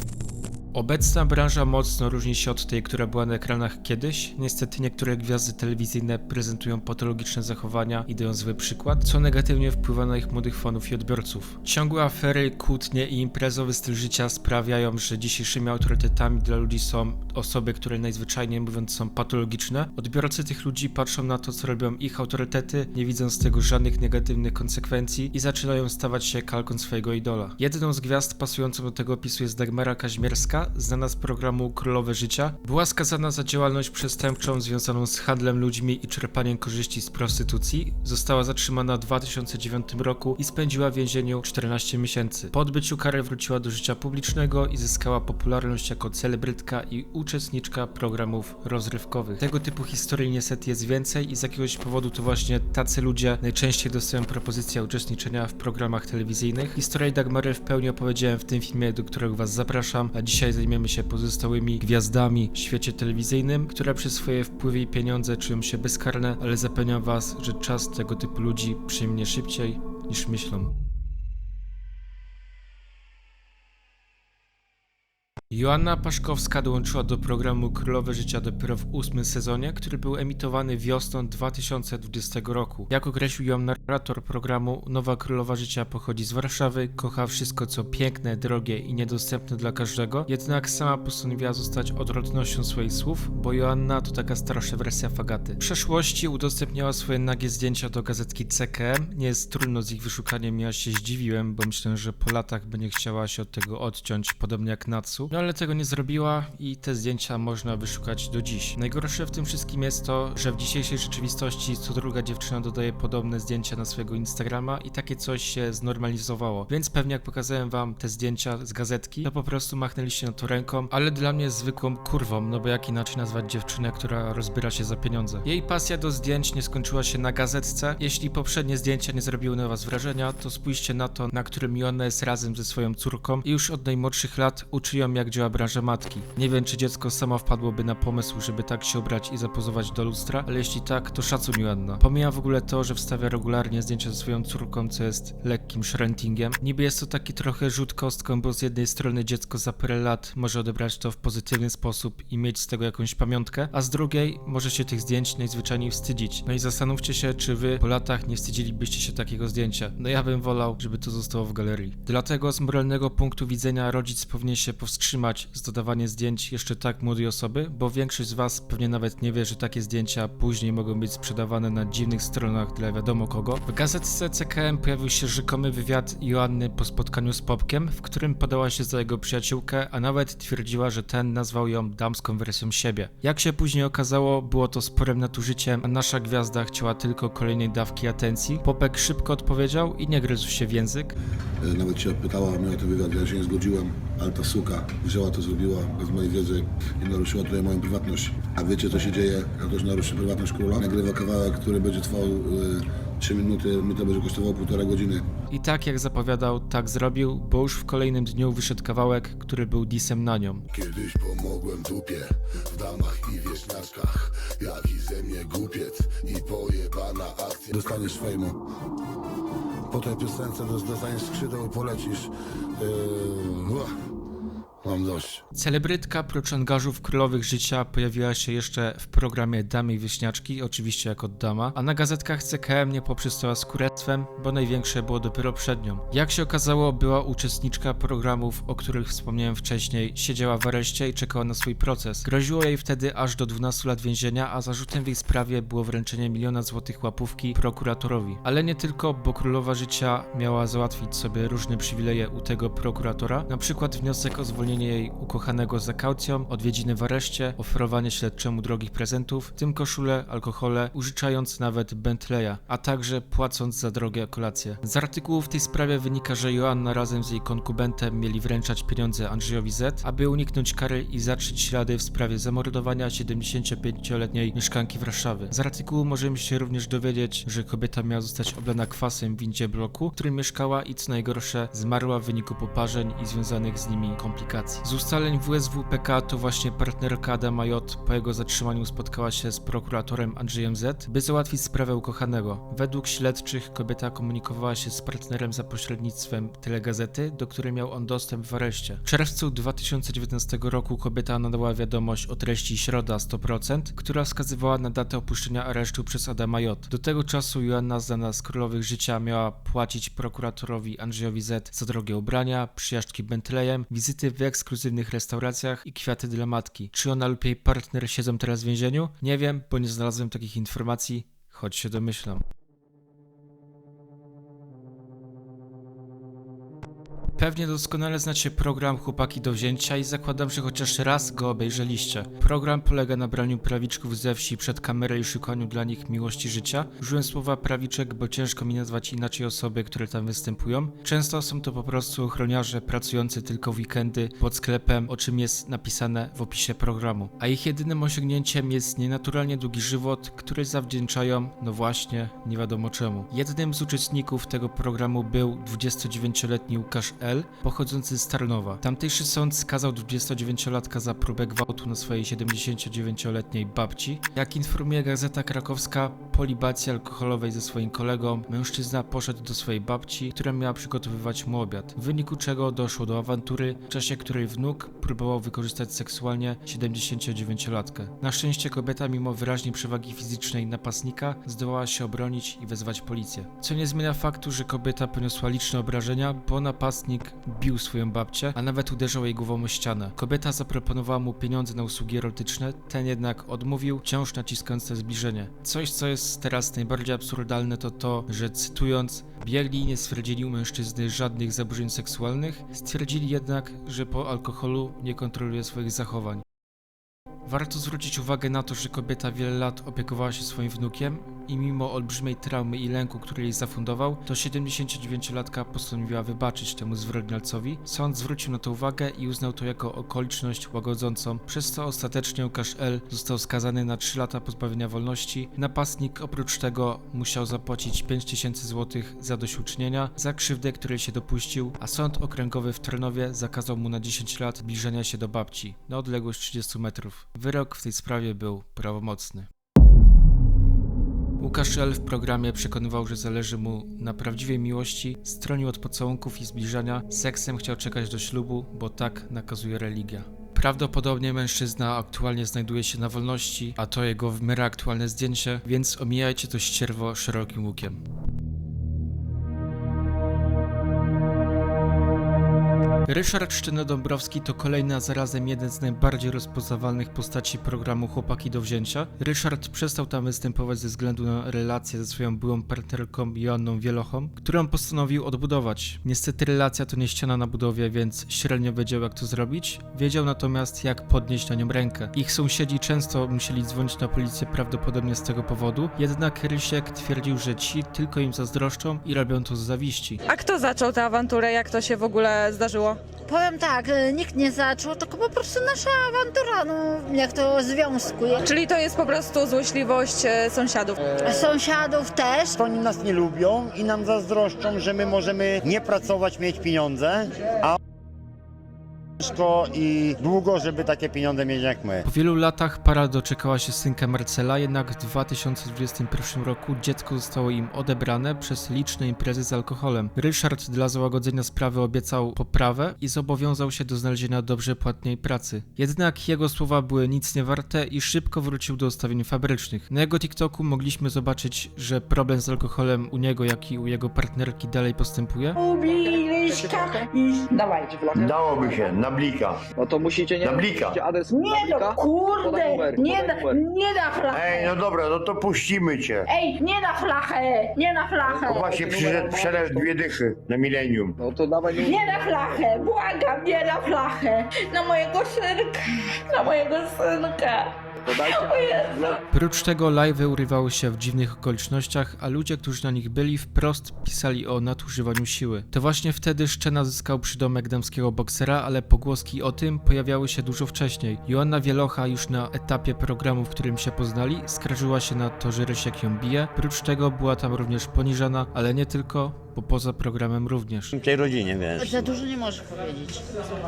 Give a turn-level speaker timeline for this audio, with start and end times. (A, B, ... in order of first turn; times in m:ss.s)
0:00.7-1:10.7 A
1:15.5-3:11.2 A
3:11.6-3:25.3 B
3:25.5-3:30.6 A
3:30.7-3:38.6 B
3:39.9-3:43.9 B
3:44.8-3:45.4 B
3:45.5-5:22.4 A
5:27.4-6:46.4 A
6:47.5-7:19.5 A
7:21.4-7:38.0 A
7:43.1-8:10.2 A
8:10.3-8:13.0 C
8:13.3-8:18.5 D
8:18.4-8:21.0 C
8:21.2-8:22.6 D
8:22.6-8:27.8 E
8:29.2-8:32.0 E
8:32.0-8:55.6 A
8:55.6-8:57.9 F
8:55.8-8:57.1 G
8:57.8-8:58.9 G
8:58.1-8:59.6 H
8:59.8-9:03.6 G
9:00.4-9:01.0 H
9:01.3-9:04.8 F
9:04.3-9:06.2 H
9:06.3-9:08.7 F
9:08.2-9:10.0 G
9:08.6-9:11.2 H
9:11.2-9:12.0 G
9:11.8-9:19.2 F
9:18.0-9:19.1 G
9:19.3-9:41.0 A
9:41.0-9:42.1 E
9:41.8-9:43.2 D